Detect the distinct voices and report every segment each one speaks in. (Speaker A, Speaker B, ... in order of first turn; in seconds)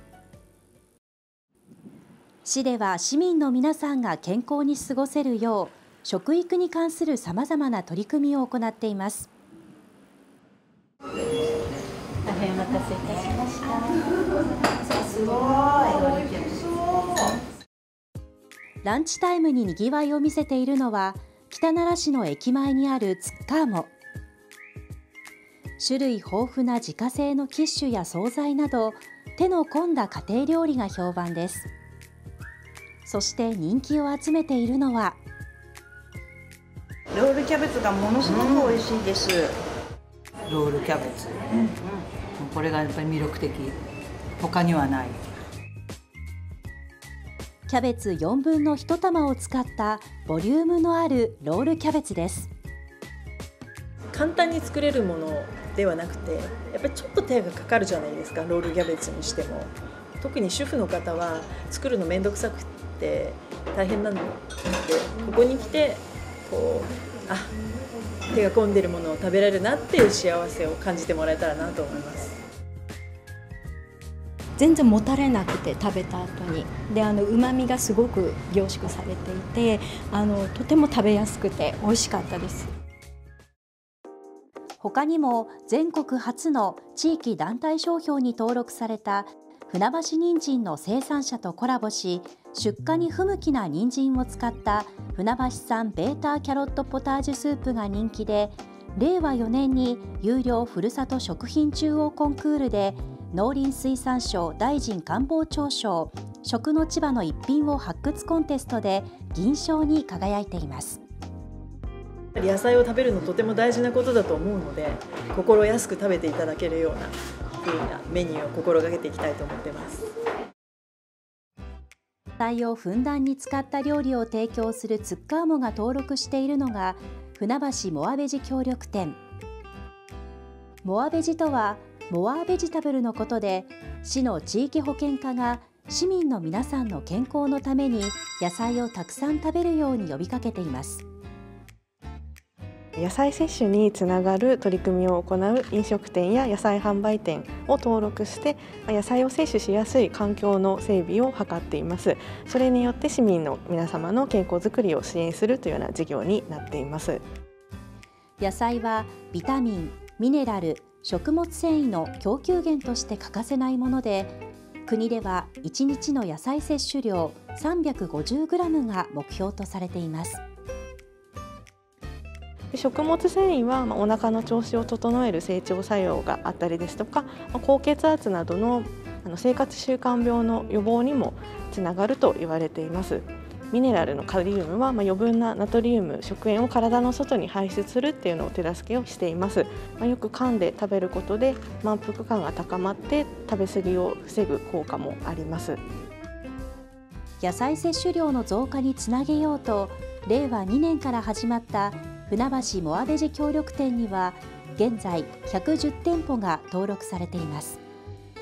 Speaker A: 2.4-9.3, 18.8-23.9, 25.8-31.7, 33.0-35.2, 47.7-52.5, 84.8-111.0, 122.4-129.2, 130.8-141.0, 158.4-170.4, 197.4-207.8
Speaker B: 37.2-39.4
Speaker C: 38.3-38.5, 40.5-41.7, 42.4-43.8, 44.4-45.2
Speaker D: 54.1-67.5, 68.3-72.4, 112.3-120.0
Speaker E: 74.6-82.7
Speaker F: 143.0-157.2, 172.7-195.8